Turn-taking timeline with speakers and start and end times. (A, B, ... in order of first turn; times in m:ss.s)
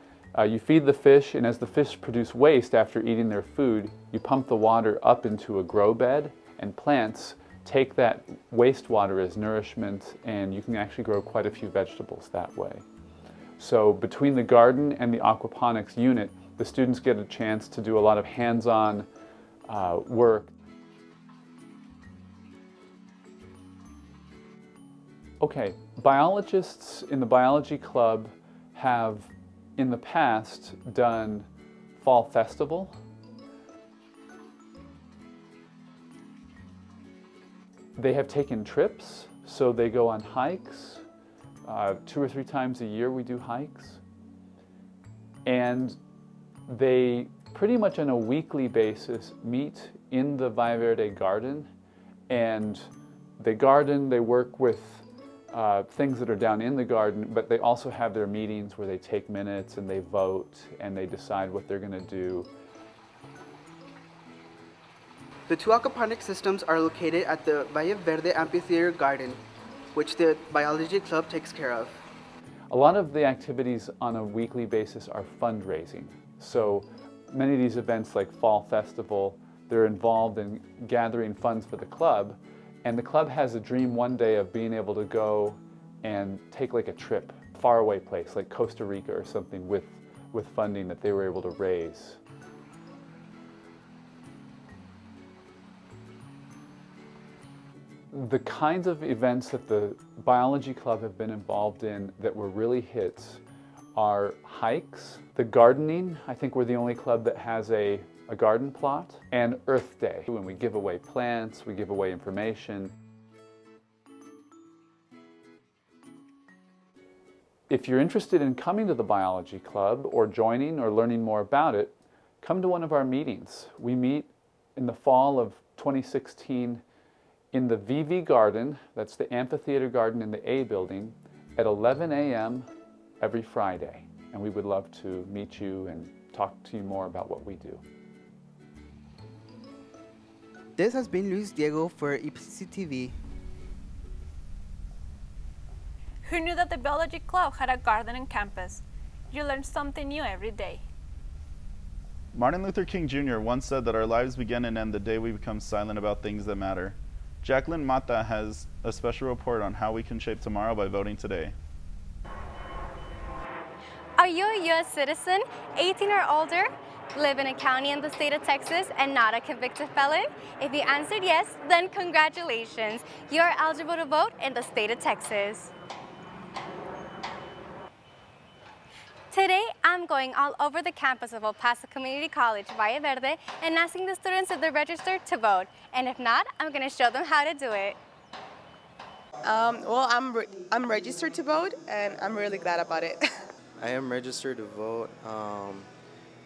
0:00.3-0:12.8 A
0:13.6-0:19.1 A
0:19.7-0:20.5 A
0:25.4-0:32.9 A
0:38.0-0:41.0 A
0:41.6-0:44.0 A
0:45.4-0:46.0 A
0:46.7-0:51.7 A
0:52.3-1:02.5 A
1:05.5-1:09.4 B
1:09.9-1:12.0 B
1:12.7-1:32.2 A
1:38.1-1:43.4 A
1:43.9-1:52.9 A
1:57.7-2:06.8 A
2:07.5-2:12.7 A
2:13.2-2:17.8 A
2:20.8-2:23.1 B
2:26.2-2:30.8 C
2:32.3-2:41.5 D
2:44.2-2:55.7 E
2:59.3-3:08.0 E
3:09.4-3:13.2 F
3:13.8-3:15.9 G